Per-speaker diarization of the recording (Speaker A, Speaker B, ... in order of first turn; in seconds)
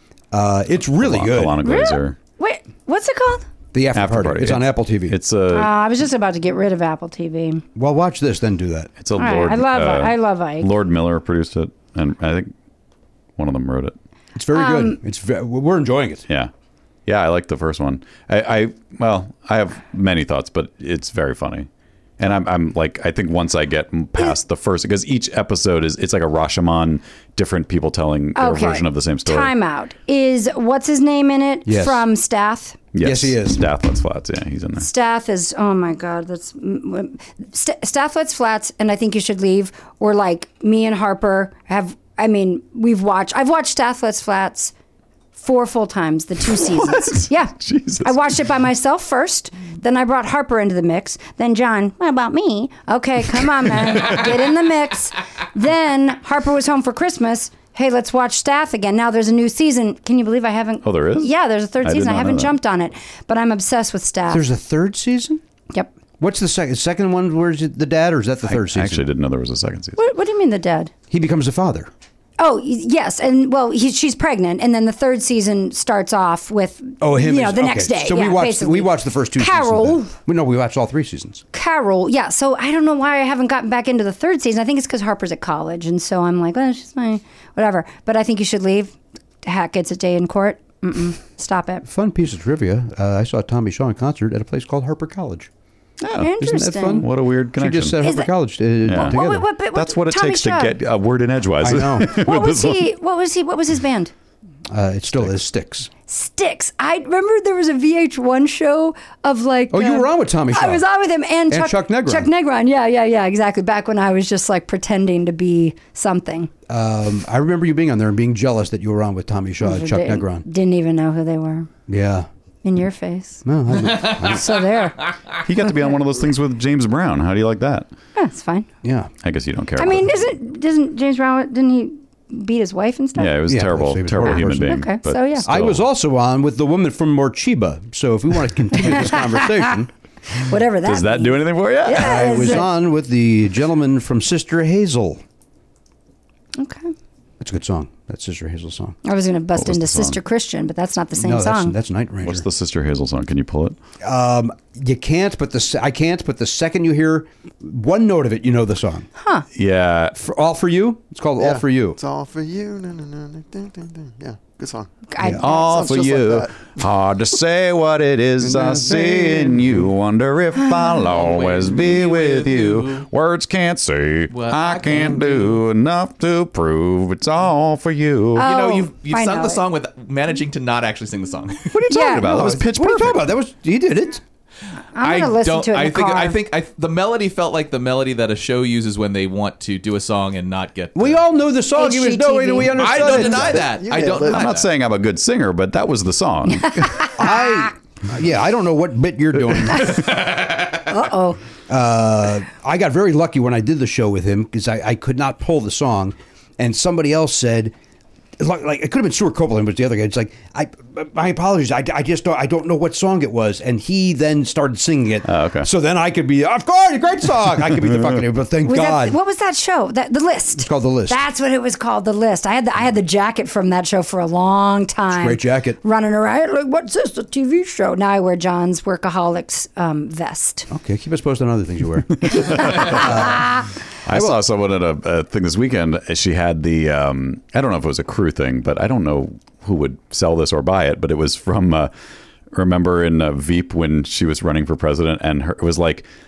Speaker A: 0.3-1.6, 3.7-5.2, 7.8-8.9, 14.3-16.3, 31.7-32.0, 33.0-33.6, 64.3-65.4, 66.2-69.1, 71.1-71.9, 77.0-81.4, 91.9-95.5, 96.4-99.5, 101.6-102.1, 104.7-105.9, 109.7-110.8, 111.5-112.3, 116.7-120.5, 121.9-122.3, 123.5-124.5, 128.8-129.1, 133.5-134.8, 135.5-139.9, 141.9-145.2, 147.4-149.0, 151.2-152.5, 154.0-159.1, 160.2-162.0, 168.4-169.9, 181.9-184.2, 190.9-193.8, 197.1-200.0, 201.7-207.7, 208.4-219.2, 220.6-221.2, 225.1-225.8, 230.7-234.4
Speaker B: 1.0-2.2, 3.9-5.7, 9.0-12.5, 13.4-14.0, 17.1-21.7, 22.2-29.5, 32.9-34.9, 46.6-48.2, 60.8-61.3, 61.8-62.6, 68.5-70.0, 96.0-96.3, 97.0-98.0, 98.8-102.8, 125.4-127.9, 129.2-130.1, 133.2-135.9, 140.8-142.5, 149.6-150.2, 152.2-153.8, 159.5-160.2, 165.3-178.5, 181.7-183.2, 194.2-197.1, 215.2-215.7, 232.2-233.4, 234.1-241.9, 242.5-246.1
Speaker C: 1.6-3.5, 5.5-7.6, 9.2-10.7, 14.5-15.0, 28.4-32.9, 34.8-44.7, 45.4-64.4, 70.0-70.9, 72.4-80.1, 81.5-91.9, 96.2-97.1, 98.0-98.3, 98.9-100.8, 102.1-104.1, 106.1-116.5, 119.6-121.7, 122.6-123.4, 124.2-125.1, 125.7-126.0, 128.2-128.7, 129.8-133.4, 134.5-135.5, 138.9-139.6, 140.3-142.7, 146.6-146.9, 149.0-151.8, 159.2-159.5, 165.1-165.8, 170.6-171.1, 178.4-179.6, 181.9-182.5, 184.9-186.4, 191.7-193.3, 196.6-197.7, 199.7-200.1, 200.9-201.4, 218.7-230.7, 232.4-233.7
Speaker D: 161.4-166.7, 193.1-194.6
Speaker E: 171.0-173.1, 174.3-175.6, 178.4-181.7, 185.0-191.2, 192.6-194.7